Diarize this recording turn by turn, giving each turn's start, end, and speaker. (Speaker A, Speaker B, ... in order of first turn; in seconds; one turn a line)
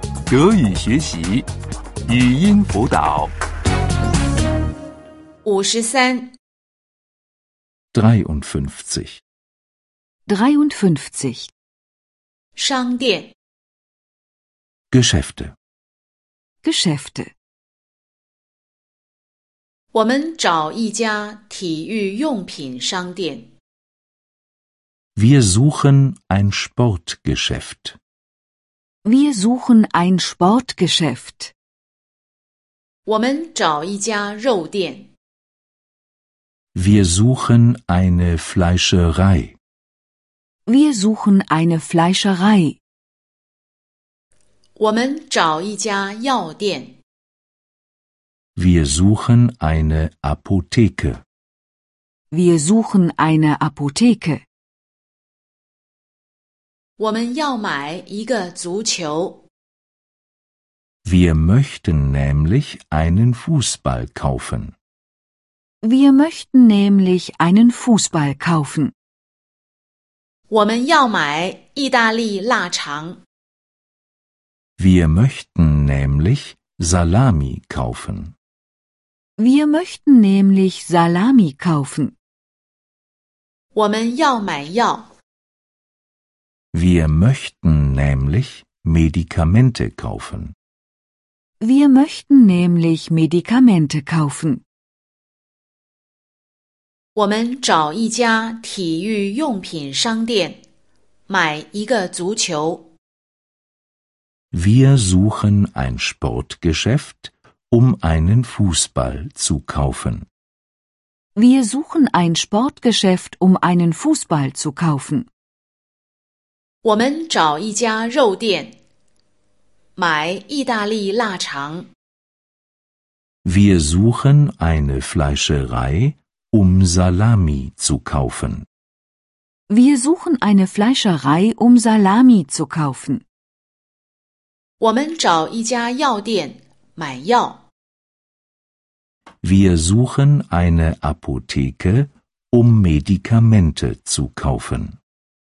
Speaker A: 0.3-1.5
Speaker A: 2.0-3.3
Speaker B: 5.4-6.3
Speaker C: 7.9-9.2
Speaker D: 10.2-11.5
Speaker B: 12.6-13.3
Speaker C: 14.9-15.5
Speaker D: 16.6-17.3
Speaker B: 19.9-23.5
Speaker C: 25.1-28.0
Speaker D: 29.0-31.5
Speaker B: 33.0-35.1
Speaker C: 36.7-39.5
Speaker D: 40.6-42.8
Speaker B: 44.8-47.0
Speaker C: 48.5-51.2
Speaker D: 52.3-54.4
Speaker B: 57.0-59.4
Speaker C: 61.0-64.7
Speaker D: 65.8-68.9
Speaker B: 70.5-73.2
Speaker C: 74.8-78.3
Speaker D: 79.4-82.1
Speaker B: 83.7-85.1
Speaker C: 86.7-90.5
Speaker D: 91.6-94.6
Speaker B: 97.1-100.6
Speaker B: 101.3-102.9
Speaker C: 104.5-110.2
Speaker D: 111.3-115.3
Speaker B: 116.8-118.7
Speaker B: 120.0-121.9
Speaker C: 123.4-128.7
Speaker D: 129.7-133.2
Speaker B: 134.8-137.6
Speaker C: 139.4-144.9